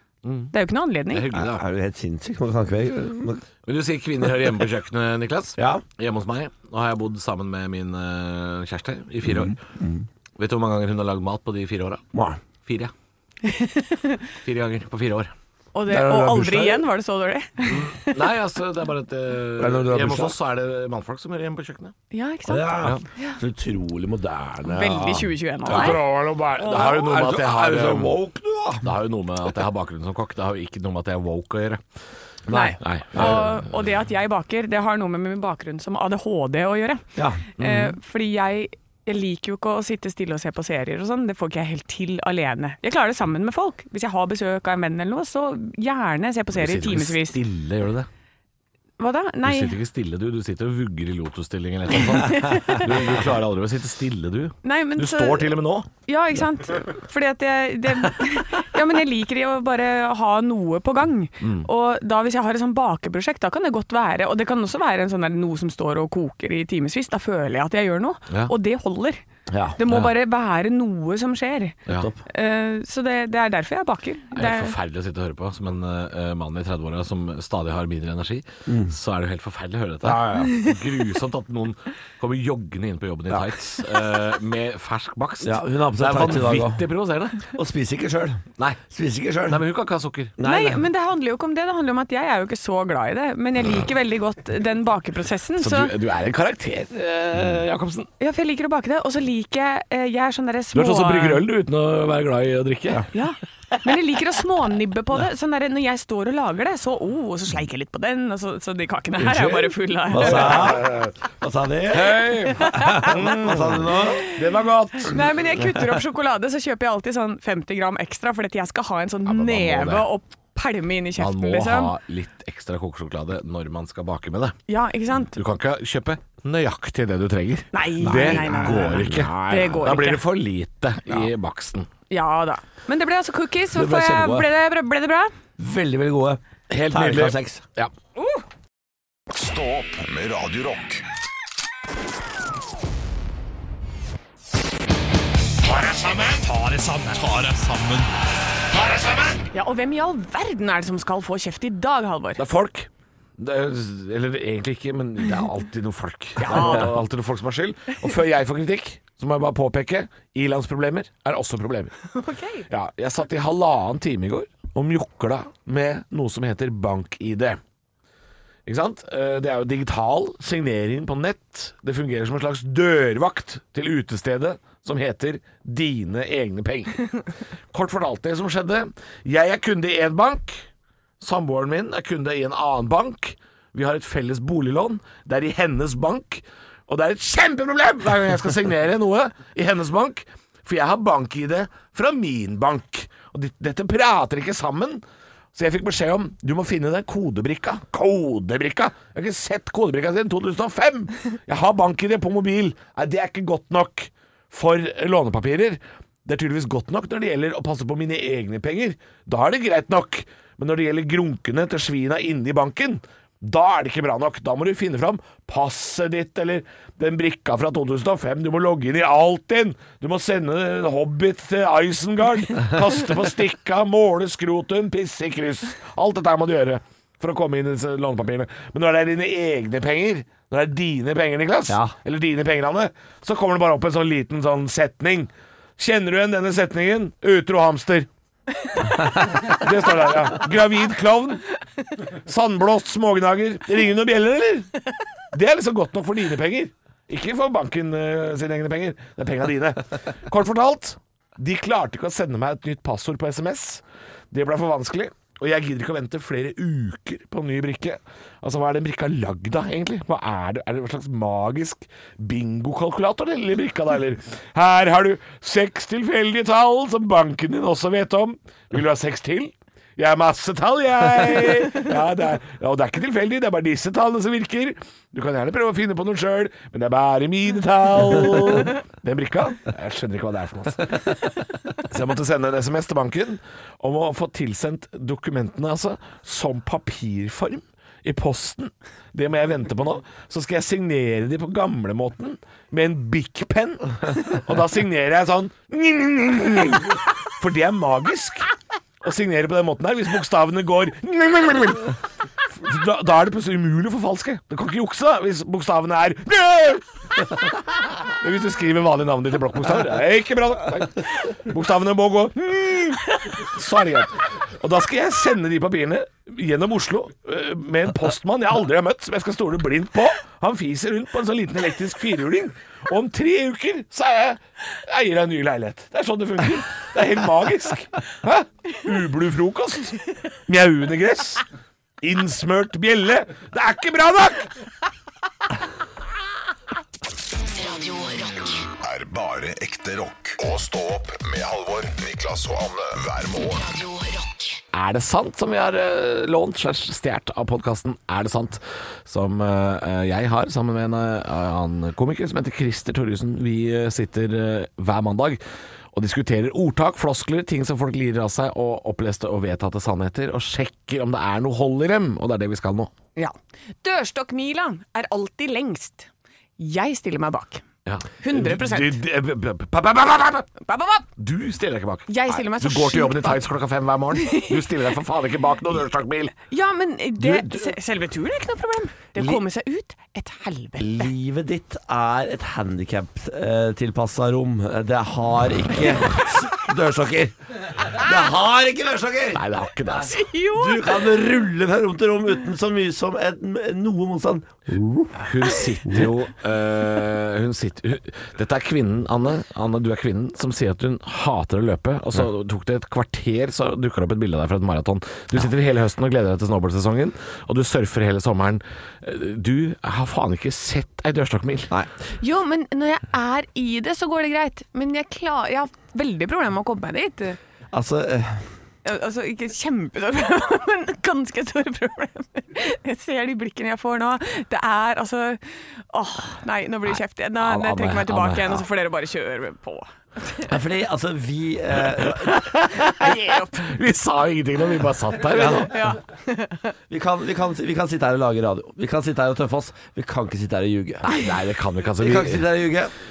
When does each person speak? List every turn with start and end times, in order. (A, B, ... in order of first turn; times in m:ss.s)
0:00.2-0:00.5 A
0:00.5-0:01.3 B
0:01.1-0:01.6 A
0:01.3-0:03.4 C
0:03.6-0:09.6 A
0:05.6-0:05.8 C
0:09.2-0:10.0 C
0:10.4-0:12.0 A
0:12.1-0:12.4 C
0:12.6-0:12.9 A
0:13.4-0:14.2 B
0:14.4-0:15.3 A
0:15.7-0:18.3 B
0:15.9-0:16.8 C
0:17.7-0:21.9 A
0:19.6-0:20.3 C
0:22.1-0:23.4 B
0:22.5-0:28.9 C
0:24.6-0:26.0 B
0:25.6-0:28.2 A
0:26.6-0:26.8 B
0:28.8-0:31.8 A
0:32.5-0:33.4 C
0:32.5-0:47.4 B
0:32.8-0:33.6 A
0:37.2-0:37.4 C
0:37.6-0:38.0 A
0:46.5-0:48.1 A
0:49.0-0:49.7 B
0:49.4-0:55.9 A
0:52.0-0:52.9 B
0:54.6-0:55.5 B
0:56.0-1:09.2 B
1:01.4-1:01.7 A
1:09.5-1:09.8 C
1:09.8-1:14.7 B
1:09.9-1:10.1 A
1:14.3-1:27.5 A
1:18.7-1:18.9 C
1:25.4-1:26.8 C
1:27.5-1:29.6 C
1:29.5-1:30.4 A
1:30.4-1:30.8 C
1:30.4-1:35.9 B
1:35.6-1:38.1 A
1:38.2-1:41.4 B
1:40.7-1:43.1 A
1:43.1-1:50.7 B
1:49.2-1:54.2 C
1:50.1-1:51.1 A
1:51.9-1:55.2 A
1:52.6-1:53.1 B
1:53.9-1:54.2 B
1:55.0-2:01.9 B
1:59.2-2:00.1 A
2:01.2-2:04.6 A
2:04.7-2:05.4 B
2:05.3-2:11.9 A
2:07.7-2:10.2 B
2:08.0-2:09.3 C
2:12.1-2:15.3 B
2:13.7-2:14.5 C
2:15.6-2:17.6 C
2:16.7-2:17.9 A
2:18.2-2:18.4 B
2:19.3-2:21.0 D
2:25.6-2:28.1 A
2:28.7-2:29.4 A
2:29.5-2:32.4 B
2:32.4-2:41.9 A
2:36.4-2:36.9 B
2:42.1-2:42.7 B
2:42.7-2:47.6 A
2:48.6-2:57.2 A
2:57.7-3:00.6 A
3:01.2-3:15.0 A
3:15.5-3:58.1 A
3:51.7-3:51.9 C
3:59.2-4:01.4 A
4:02.1-4:41.0 A
4:41.8-4:58.5 A
4:59.0-5:01.9 A
5:02.5-5:07.5 A
5:08.0-5:31.4 A
5:32.0-5:34.5 A
5:37.4-5:38.7 E
5:38.8-5:43.6 D
5:43.5-5:44.6 E
5:44.7-5:55.4 A
5:55.9-6:02.9 A
6:03.2-6:07.6 B
6:07.8-6:10.5 A
6:08.2-6:09.0 B
6:10.6-6:11.1 B
6:11.2-6:16.3 A
6:12.1-6:13.4 B
6:14.2-6:14.6 B
6:16.5-6:21.1 B
6:17.2-6:17.6 A
6:20.8-6:29.4 C
6:29.3-6:30.3 A
6:30.0-6:31.0 B
6:30.5-6:35.3 C
6:35.2-6:51.7 A
6:52.2-6:57.4 B
6:57.7-6:58.5 C
6:58.8-7:10.5 B
7:06.9-7:08.6 A
7:10.4-7:12.5 C
7:12.0-7:15.7 A
7:12.8-7:13.7 B
7:15.3-7:15.7 C
7:15.6-7:16.7 B
7:16.9-7:21.1 C
7:21.0-7:22.5 A
7:22.0-7:22.9 C